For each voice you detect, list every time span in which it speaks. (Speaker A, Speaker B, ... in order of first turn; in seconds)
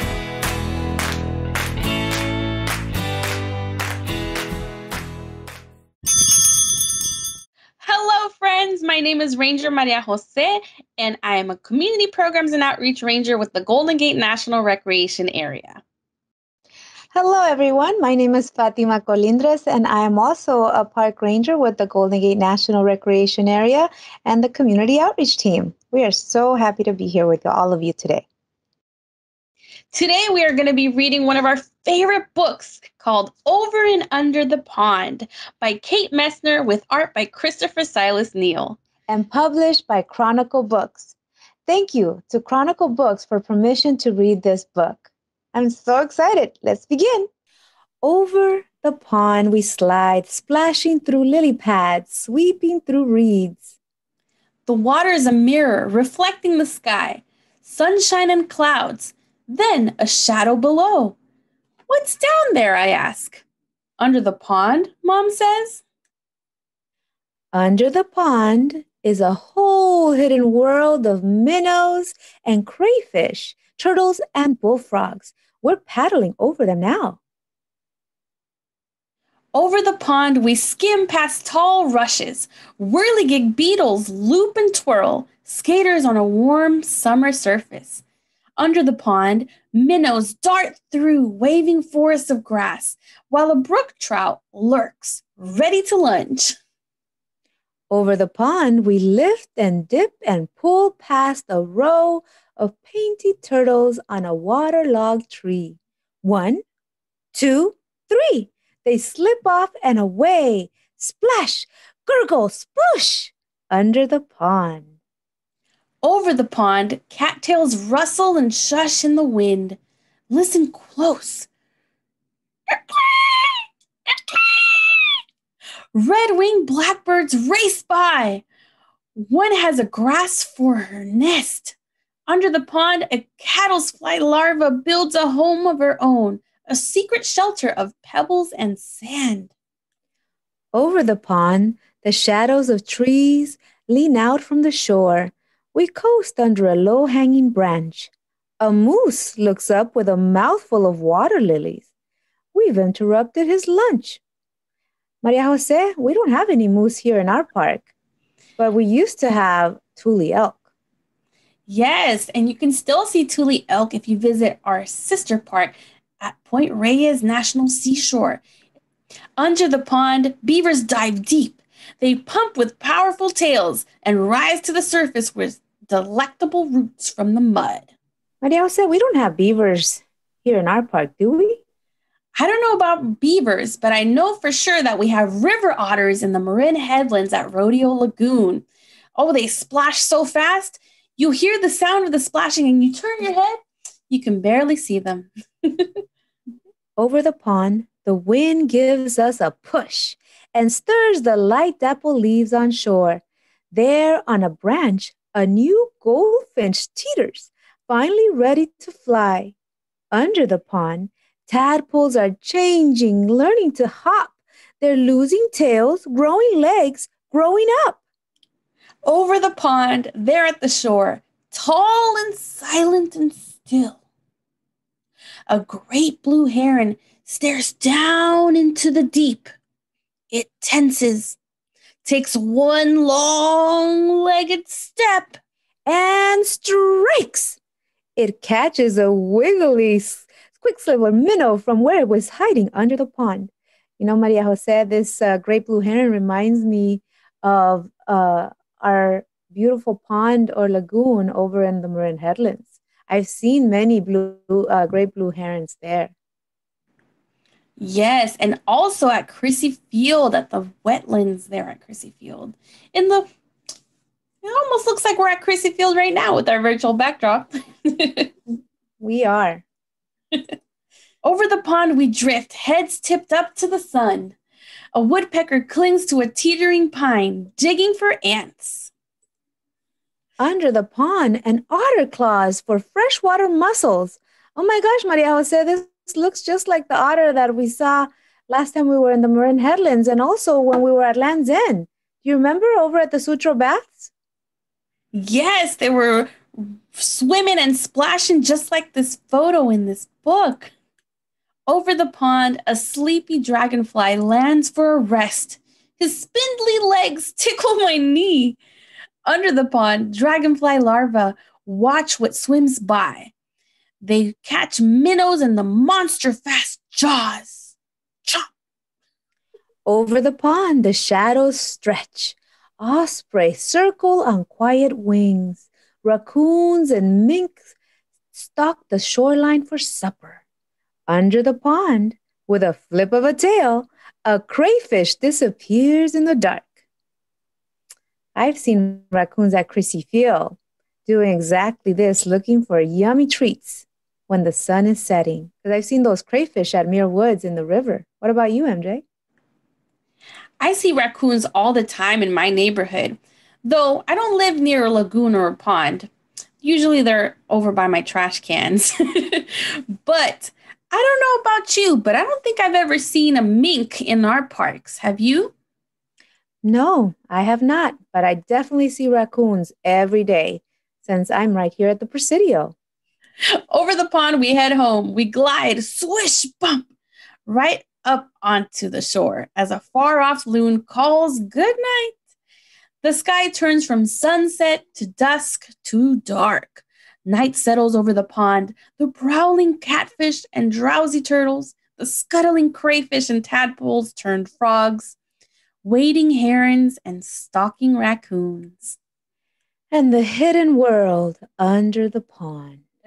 Speaker A: 7.8-15.8, 29.9-38.8, 54.7-61.1, 61.9-63.4, 64.0-65.8, 79.5-88.0, 88.6-96.5, 116.0-119.8, 120.3-121.5, 126.0-128.4, 129.2-131.7, 132.3-139.5, 161.7-168.4, 169.4-177.9, 182.4-188.6, 189.2-193.6, 194.1-195.3, 219.1-224.0, 225.5-229.5, 230.3-231.3, 232.1-235.4, 257.8-263.3, 264.4-267.5, 271.2-274.4, 274.9-278.9, 295.1-296.4, 297.0-300.7, 301.7-308.6, 309.3-313.3, 314.0-317.7, 350.6-356.1, 356.6-358.9, 360.1-365.5, 373.7-376.8, 377.5-382.1, 383.0-395.1, 395.9-398.9
Speaker B: 17.1-28.3, 39.1-41.1, 41.7-47.3, 48.0-53.8, 67.5-77.2, 97.9-106.6, 107.3-115.0, 140.7-151.9, 152.5-154.2, 155.2-157.9, 158.6-160.6, 178.4-181.6, 197.0-209.5, 210.1-218.0, 235.9-237.6, 238.2-256.1, 269.0-269.6, 280.4-294.1, 319.9-327.7, 328.3-330.4, 331.1-336.8, 338.4-349.0, 366.6-372.7, 399.9-402.9